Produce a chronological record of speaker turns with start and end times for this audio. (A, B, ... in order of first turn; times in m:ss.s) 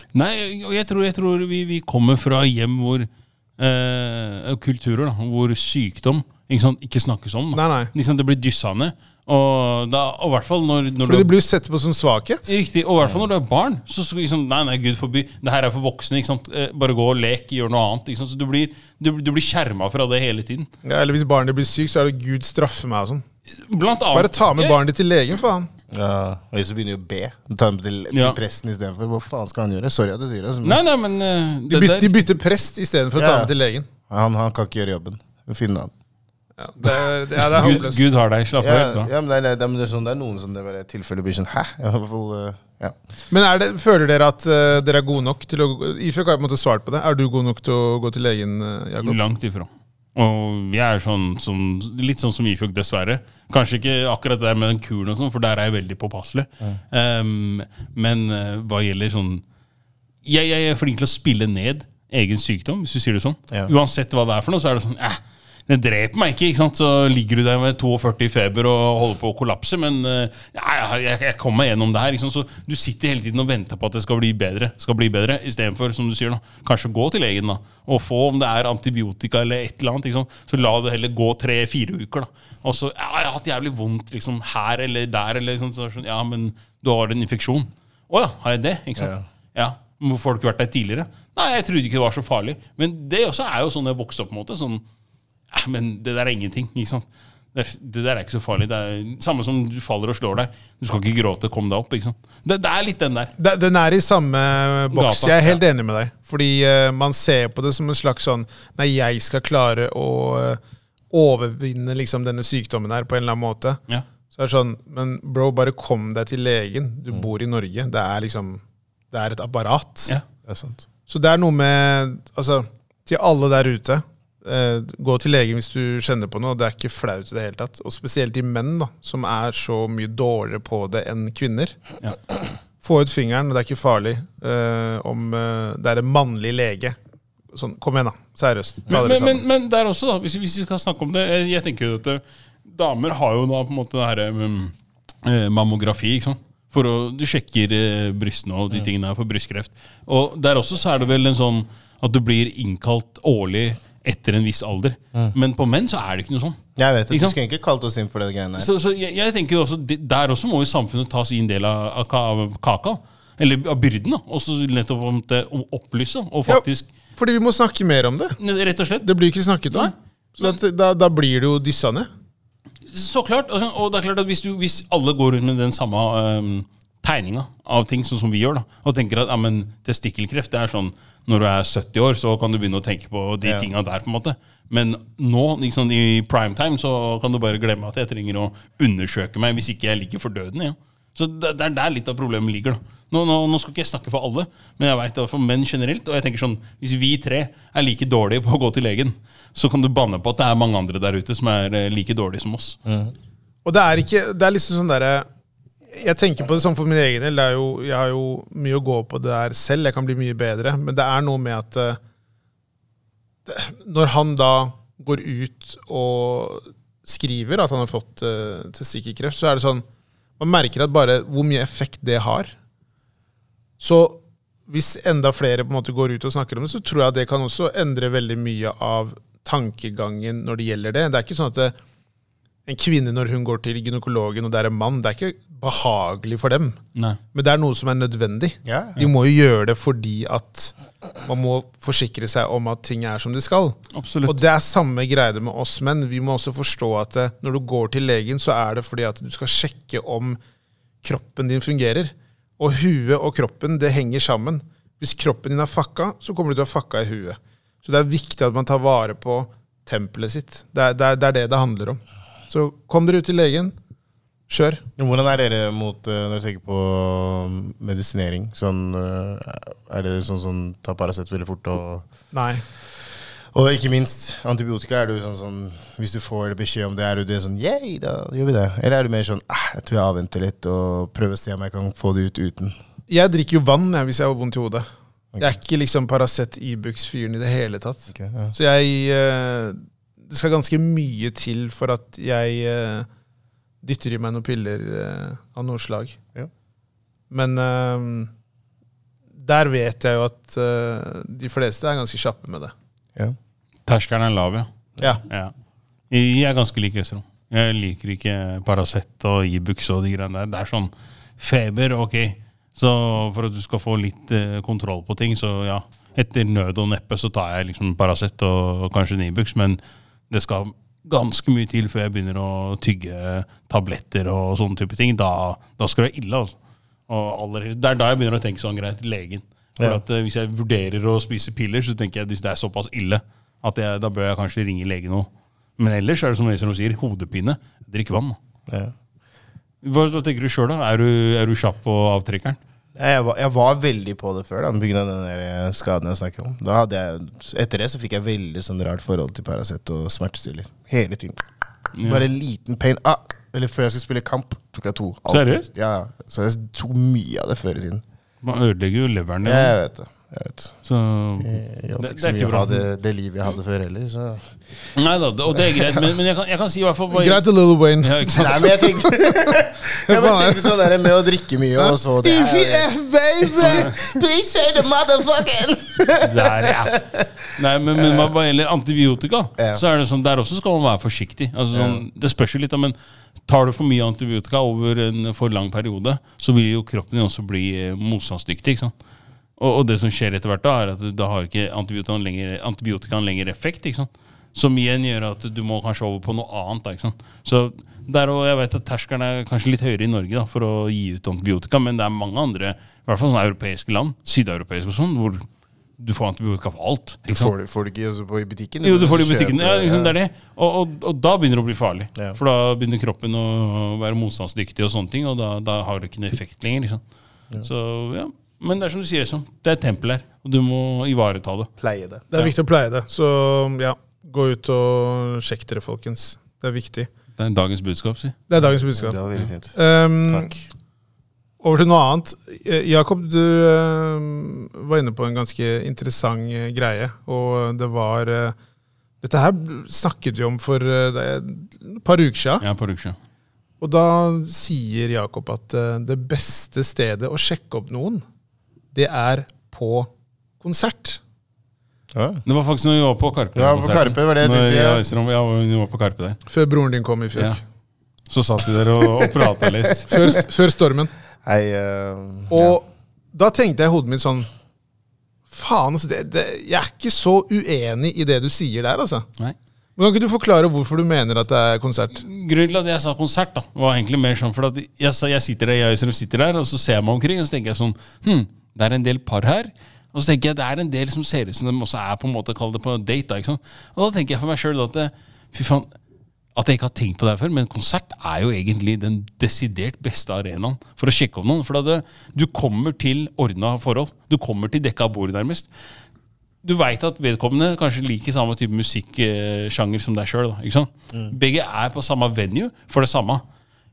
0:00.1-0:11.3 A
0:07.5-0:07.9 B
0:11.0-0:12.5 B
0:12.5-0:20.7 A
0:20.8-0:23.2 B
0:23.6-0:24.8 A
0:24.1-0:25.7 B
0:25.9-0:30.8 C
0:28.1-0:28.4 A
0:30.6-0:32.2 A
0:31.7-0:33.9 B
0:33.2-0:33.5 C
0:34.1-0:35.9 C
0:36.6-0:38.0 B
0:37.4-0:39.1 A
0:38.6-0:43.0 C
0:43.3-0:49.2 B
0:49.0-0:59.4 A
1:00.2-1:34.8 A
1:29.0-1:29.2 C
1:35.5-1:43.3 A
1:43.4-1:50.6 B
1:44.9-1:45.6 A
1:51.1-1:53.8 B
1:54.3-1:58.6 B
1:59.1-2:00.1 B
2:00.5-2:00.8 C
2:01.1-2:11.8 B
2:12.8-2:17.0 B
2:17.5-2:19.4 B
2:18.9-2:36.6 A
2:36.8-2:38.7 C
2:38.6-2:46.9 A
2:47.2-2:48.4 B
2:48.4-2:49.1 A
2:49.0-2:52.1 B
2:49.7-2:50.6 A
2:52.9-3:22.8 A
3:22.9-3:23.1 C
3:23.6-3:25.3 B
3:25.9-3:32.0 B
3:33.5-3:39.8 B
3:40.4-3:42.5 B
3:43.8-3:51.8 B
3:52.7-3:56.8 B
3:57.3-4:00.7 B
3:58.6-3:59.0 C
4:01.2-4:10.4 B
4:03.9-4:04.4 A
4:11.0-4:23.7 B
4:24.5-4:24.8 B
4:25.0-4:32.0 C
4:32.3-4:32.6 B
4:33.5-4:42.8 C
4:43.1-4:44.8 B
4:45.4-4:53.1 B
4:48.1-4:48.5 C
4:53.8-4:56.2 B
4:57.3-4:58.3 B
4:59.4-5:02.7 B
5:03.9-5:04.7 A
5:05.3-5:05.5 A
5:06.1-5:26.6 A
5:27.1-5:38.4 A
5:38.7-5:38.9 C
5:39.8-5:42.6 A
5:43.0-5:51.4 C
5:51.9-5:52.3 A
5:52.0-5:58.0 C
5:55.3-5:55.7 A
5:58.4-5:59.7 A
5:59.4-6:00.8 C
6:00.8-6:02.8 A
6:01.4-6:04.6 C
6:05.0-6:07.4 A
6:05.7-6:06.0 C
6:07.1-6:10.9 B
6:08.0-6:08.7 A
6:08.3-6:12.9 C
6:11.8-6:14.2 B
6:13.4-6:17.3 C
6:16.2-6:23.0 A
6:18.0-6:18.3 C
6:19.6-6:19.8 C
6:21.7-6:22.0 C
6:23.5-6:28.9 A
6:29.6-6:45.5 A
6:46.0-6:47.5 A
6:47.3-6:50.2 C
6:48.8-6:57.0 A
6:57.6-7:01.7 A
7:01.8-7:02.3 C
7:02.3-7:07.1 B
7:07.4-7:08.4 A
7:08.5-7:09.2 B
7:08.6-7:09.8 C
7:09.7-7:10.5 B
7:10.3-7:10.6 C
7:11.6-7:18.6 B
7:19.2-7:22.6 B
7:22.6-7:23.2 A
7:23.8-7:28.2 B
7:28.9-7:30.1 B
7:30.6-7:31.2 B
7:32.1-7:32.4 C
7:32.4-7:36.4 A
7:33.6-7:35.0 C
7:36.5-7:37.6 B
7:38.3-7:40.1 A
7:40.1-7:41.1 B
7:41.4-7:42.8 C
7:42.5-7:44.5 B
7:45.5-7:49.3 B
7:50.0-7:52.2 B
7:52.2-8:05.9 A
8:06.6-8:15.7 A
8:16.6-8:23.4 A